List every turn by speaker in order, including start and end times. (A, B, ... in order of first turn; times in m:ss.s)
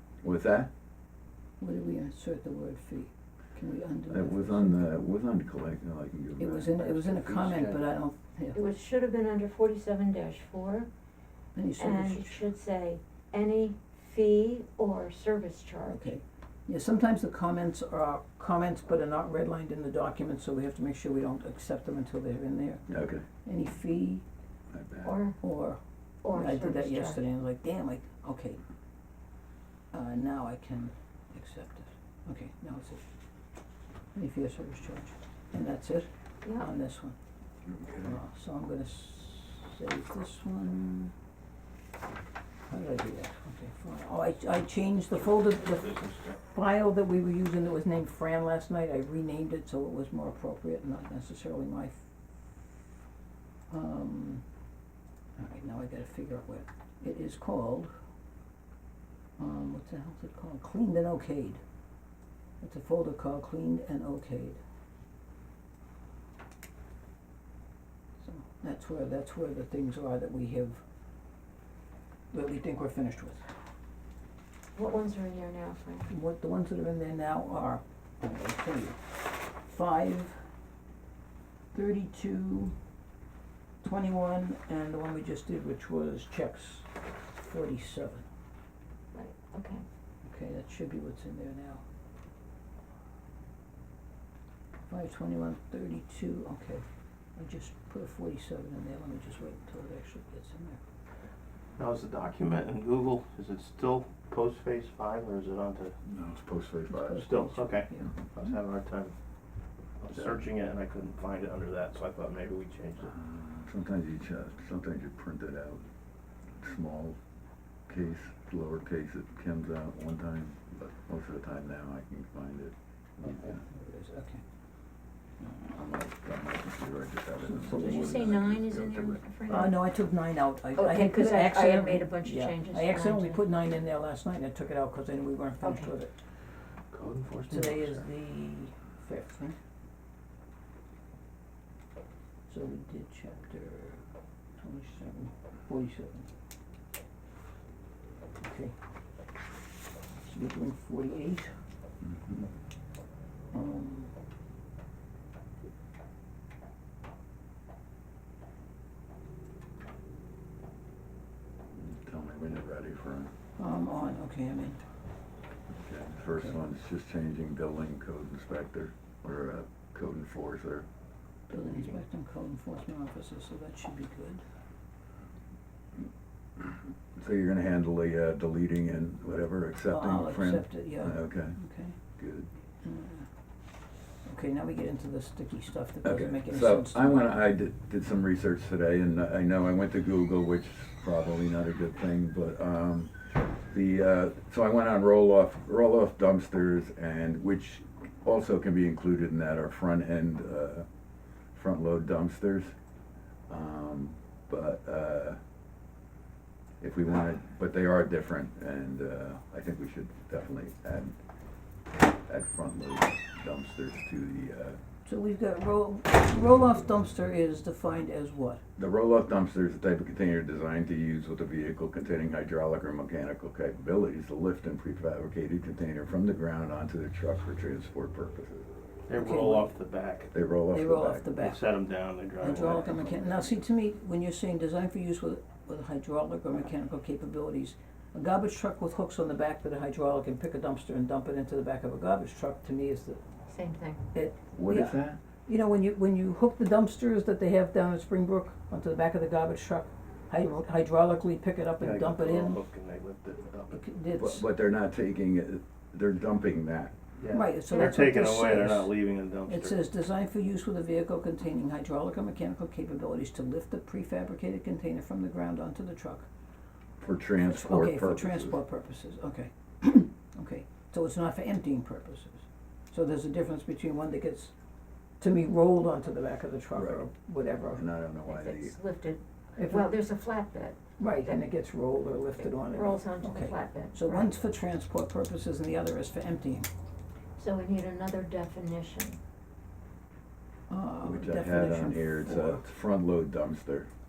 0:00.2-0:00.7 A
0:01.6-0:04.9 B
0:04.1-0:07.8 A
0:06.4-0:08.6 B
0:08.6-0:10.9 C
0:11.5-0:12.4 B
0:11.8-0:16.1 C
0:15.8-0:24.2 B
0:22.9-0:23.2 A
0:24.7-0:25.2 A
0:25.0-0:25.3 C
0:25.4-0:28.6 B
0:26.2-0:27.2 C
0:29.9-0:33.0 B
0:34.1-0:37.2 B
0:37.6-0:38.1 A
0:38.0-0:41.1 B
0:42.7-0:52.6 B
0:53.7-0:54.4 B
0:55.4-0:57.9 B
0:59.4-1:01.6 B
1:02.6-1:04.6 B
1:08.2-1:10.8 B
1:12.3-1:13.4 B
1:14.7-1:16.1 C
1:16.1-1:20.4 B
1:21.7-1:22.7 B
1:23.8-1:28.2 B
1:29.1-1:29.8 C
1:30.2-1:31.8 B
1:34.9-1:36.8 B
1:37.4-1:40.8 B
1:41.8-1:46.0 D
1:46.0-1:47.3 A
1:46.9-1:48.1 B
1:47.2-1:49.1 D
1:50.0-1:53.1 D
1:53.0-1:55.8 A
1:56.6-1:57.2 A
1:57.9-2:03.6 A
2:03.4-2:04.4 B
2:05.4-2:09.2 A
2:07.4-2:08.2 B
2:07.7-2:09.8 C
2:09.5-2:16.1 B
2:10.8-2:13.4 C
2:15.6-2:15.9 C
2:16.9-2:17.7 A
2:17.5-2:19.6 B
2:22.5-2:24.0 B
2:24.6-2:26.3 B
2:28.4-2:28.7 B
2:30.2-2:31.5 B
2:32.0-2:32.5 A
2:33.5-2:34.1 B
2:41.7-2:43.3 A
2:43.6-2:44.8 B
2:45.7-2:50.8 A
2:51.5-2:54.4 B
2:56.6-3:01.6 A
2:59.9-3:02.0 B
3:02.2-3:02.5 A
3:02.8-3:03.3 B
3:04.2-3:07.3 B
3:06.0-3:20.8 A
3:21.5-3:22.7 A
3:23.5-3:25.4 A
3:26.8-3:31.2 A
3:32.3-3:34.8 A
3:35.0-3:38.6 B
3:38.8-3:48.7 A
3:49.1-3:50.3 D
3:49.1-3:49.7 B
3:50.3-3:51.3 A
3:50.7-3:51.6 B
3:51.4-3:53.0 D
3:52.4-4:03.2 B
3:52.7-3:53.0 A
4:03.5-4:04.0 C
4:04.1-4:12.6 B
4:04.5-4:05.2 A
4:11.8-4:13.8 D
4:13.7-4:14.5 B
4:14.2-4:16.9 A
4:17.2-4:19.8 D
4:17.3-4:18.9 B
4:17.7-4:18.1 C
4:19.4-4:26.3 B
4:27.0-4:28.6 A
4:27.4-4:34.5 B
4:35.2-4:37.8 B
4:36.8-4:37.0 A
4:37.7-4:38.8 A
4:38.2-4:41.4 C
4:39.6-4:40.0 B
4:41.0-4:46.7 B
4:42.5-4:44.2 C
4:47.4-4:49.2 C
4:50.7-4:52.6 B
4:51.0-4:53.9 A